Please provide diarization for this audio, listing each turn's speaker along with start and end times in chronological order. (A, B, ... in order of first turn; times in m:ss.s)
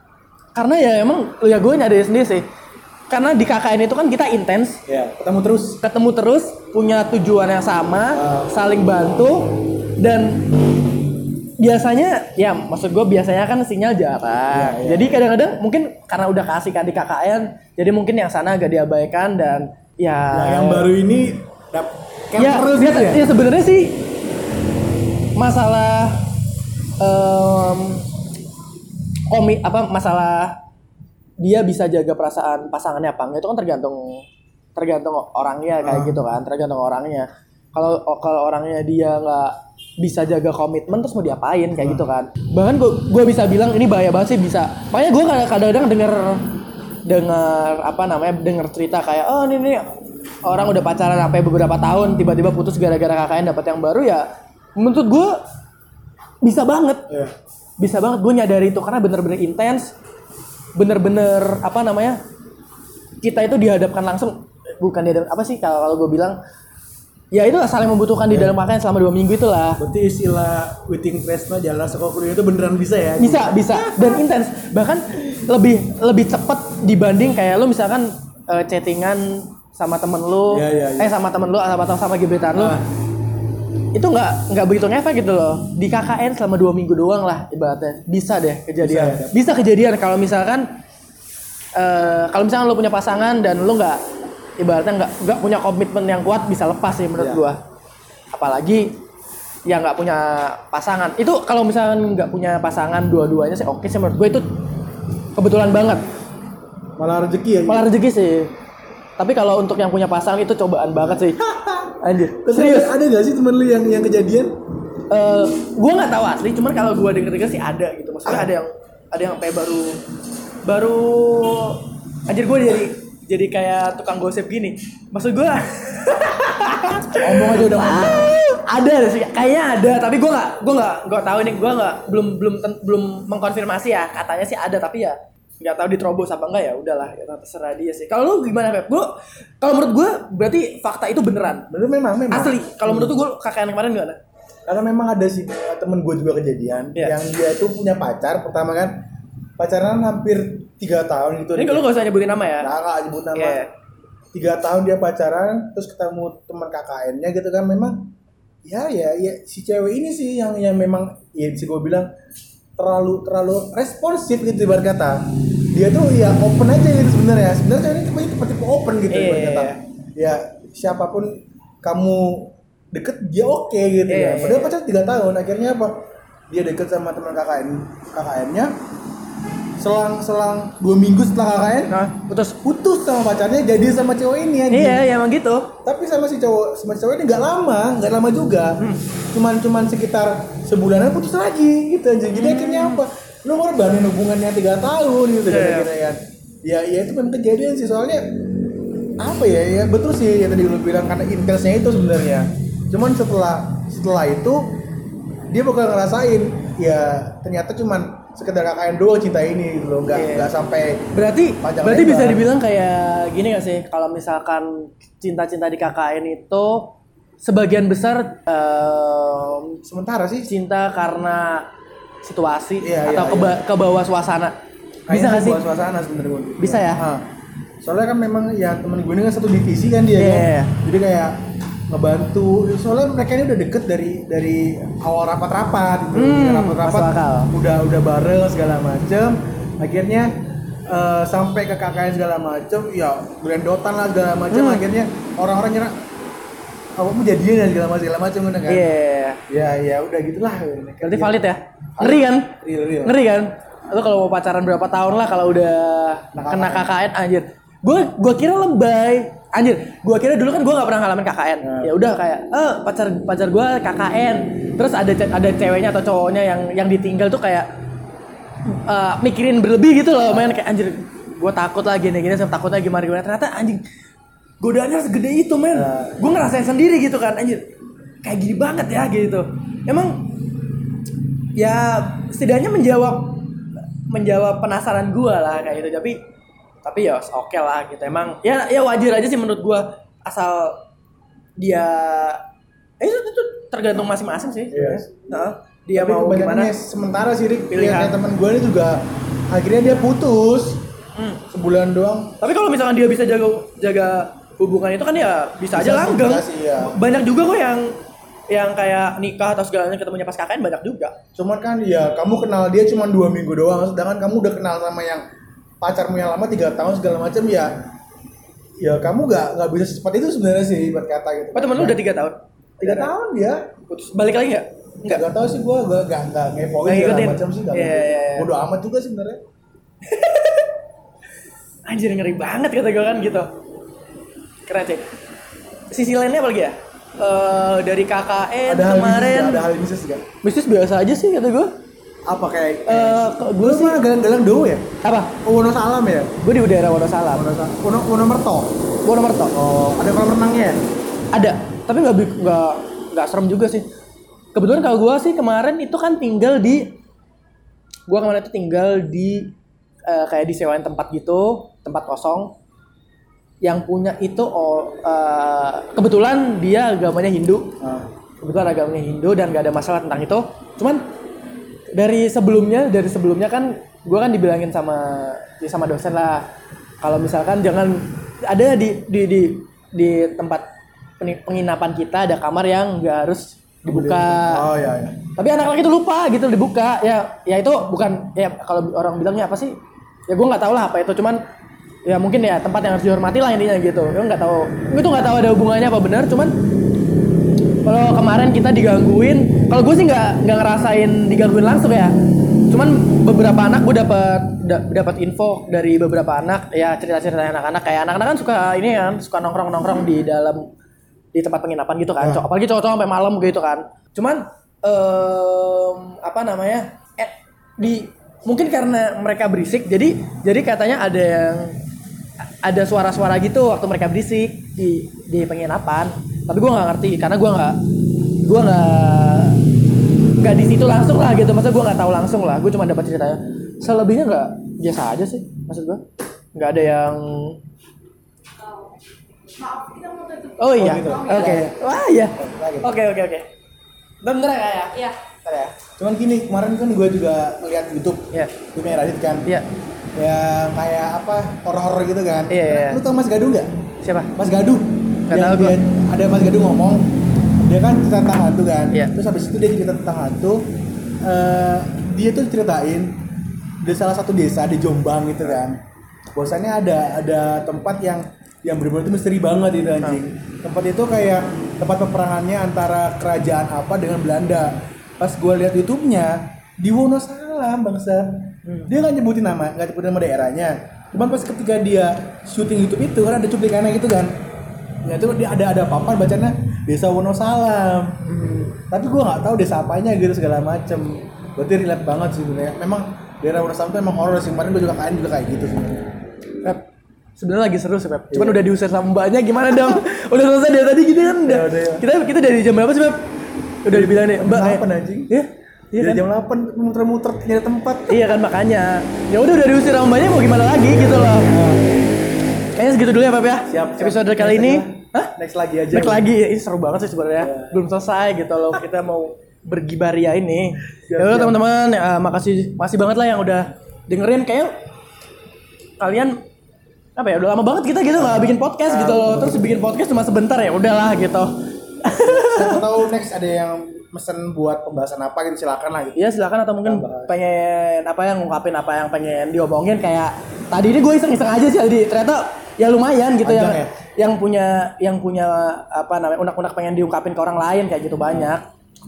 0:00.6-0:02.5 A
0:03.1-0:04.8 A
0:04.9-0:05.8 B
0:05.8-0:10.5 A
0:08.1-0:08.5 B
0:11.6-0:20.9 A
0:14.5-0:15.2 B
0:20.3-0:23.3 B
0:22.4-0:24.1 A
0:25.4-0:26.3 A
0:27.0-0:28.1 A
0:29.3-0:30.6 A
0:31.4-0:49.9 A
0:35.8-0:36.2 B
0:41.8-0:42.0 B
0:50.4-0:55.4 A
0:56.4-0:57.1 A
0:57.1-0:57.3 B
0:57.8-0:59.9 A
1:00.8-1:02.2 A
1:03.2-1:06.4 A
1:07.3-1:09.8 A
1:08.3-1:08.6 B
1:09.8-1:13.9 B
1:13.2-1:22.8 A
1:20.5-1:21.1 B
1:22.6-1:22.9 B
1:23.9-1:30.7 A
1:28.8-1:29.4 B
1:31.8-1:34.0 A
1:34.6-1:37.6 A
1:37.2-1:37.4 B
1:38.3-1:39.0 A
1:39.6-1:44.5 A
1:45.4-1:46.0 A
1:47.0-1:47.8 B
1:47.7-1:48.5 A
1:49.2-1:51.4 A
1:51.0-1:54.6 B
1:52.0-1:52.9 A
1:55.1-2:00.0 A
2:00.6-2:21.7 A
2:07.2-2:08.3 B
2:21.7-2:23.2 B
2:22.3-2:24.2 A
2:24.7-2:29.0 B
2:29.6-2:31.9 B
2:31.6-2:32.7 A
2:32.6-2:33.6 B
2:33.4-2:33.7 A
2:34.3-2:38.1 B
2:38.6-2:42.1 B
2:42.8-2:58.7 B
2:49.1-2:49.8 A
2:54.1-2:54.7 A
2:59.8-3:02.0 B
3:01.9-3:02.6 A
3:02.6-3:05.1 B
3:04.7-3:05.7 A
3:05.8-3:18.4 B
3:08.8-3:09.1 A
3:12.3-3:13.0 A
3:15.5-3:15.9 A
3:19.2-3:24.8 B
3:25.5-3:32.5 B
3:30.1-3:30.5 A
3:31.1-3:39.8 A
3:39.8-3:40.5 B
3:40.5-3:41.7 A
3:42.2-3:44.5 A
3:42.8-3:43.6 B
3:45.1-3:47.3 B
3:45.1-3:45.6 A
3:46.6-3:47.0 A
3:47.8-4:06.0 B
3:50.2-3:50.8 A
3:56.1-3:57.5 A
4:04.5-4:04.8 A
4:07.0-4:08.9 B
4:08.7-4:09.4 A
4:09.5-4:11.4 B
4:11.0-4:12.5 A
4:12.0-4:13.2 B
4:13.0-4:27.7 A
4:16.3-4:16.9 B
4:21.6-4:21.9 B
4:28.6-4:33.8 A
4:34.6-4:37.6 A
4:35.7-4:36.2 B
4:38.2-4:40.4 A
4:41.6-4:43.5 A
4:44.1-4:46.2 A
4:46.8-4:50.8 A
4:51.6-4:52.4 A
4:53.0-4:56.7 A
4:54.7-4:55.2 B
4:55.9-5:00.8 B
4:57.7-4:58.1 A
5:01.2-5:01.4 A
5:01.5-5:02.4 B
5:02.4-5:08.0 A
5:05.7-5:07.0 B
5:08.5-5:11.1 A
5:11.4-5:15.2 B
5:15.8-5:17.8 B
5:18.8-5:22.0 B
5:21.6-5:23.1 A
5:22.8-5:23.7 B
5:23.9-5:25.2 A
5:25.0-5:29.4 B
5:26.8-5:28.5 A
5:30.1-5:30.7 A
5:31.9-5:33.5 A
5:34.7-5:35.1 A
5:35.9-5:39.7 A
5:38.6-5:40.2 B
5:40.4-5:41.7 A
5:42.3-5:44.9 B
5:42.9-5:44.0 A
5:45.0-5:45.4 A
5:45.4-5:46.4 B
5:46.4-5:47.4 A
5:47.3-5:48.8 B
5:49.0-5:49.5 A
5:49.5-5:50.8 B
5:51.3-5:53.9 A
5:54.6-5:57.0 A
5:58.1-5:59.5 A
6:00.1-6:02.6 A
6:03.6-6:07.8 A
6:07.8-6:08.1 B
6:08.4-6:11.0 A
6:11.9-6:16.5 A
6:17.0-6:20.7 A
6:21.2-6:24.6 A
6:23.8-6:25.2 B
6:25.4-6:29.8 A
6:30.3-6:31.4 A
6:32.0-6:36.6 A
6:37.8-6:42.2 A
6:42.7-6:50.7 A
6:51.3-7:01.8 A
6:52.2-6:52.4 B
7:02.6-7:07.8 A
7:08.4-7:09.6 A
7:10.4-7:17.6 A
7:20.6-7:23.5 A
7:20.8-7:21.8 B
7:22.4-7:22.9 B
7:24.2-7:25.7 A
7:25.8-7:29.5 B
7:30.1-7:33.7 B
7:32.5-7:33.0 A
7:34.0-7:34.3 A
7:34.4-7:43.2 B
7:35.3-7:35.8 A
7:43.8-7:45.8 B
7:46.3-8:04.3 B
7:58.6-7:58.9 A
8:05.0-8:16.1 B
8:08.3-8:08.7 A
8:17.4-8:23.3 A
8:18.3-8:18.6 B
8:21.4-8:22.1 B
8:23.8-8:26.2 A
8:23.9-8:25.3 B
8:26.0-8:28.2 B
8:28.1-8:31.5 A
8:30.9-8:31.9 B
8:32.8-8:35.3 A
8:33.7-8:36.3 B
8:35.9-8:44.7 A
8:37.4-8:37.8 B
8:41.1-8:41.6 B
8:46.0-8:46.4 A
8:47.2-8:52.9 A
8:48.2-8:49.8 B
8:52.1-8:56.2 B
8:56.2-9:08.6 A
8:56.8-8:57.3 B
9:03.4-9:03.9 B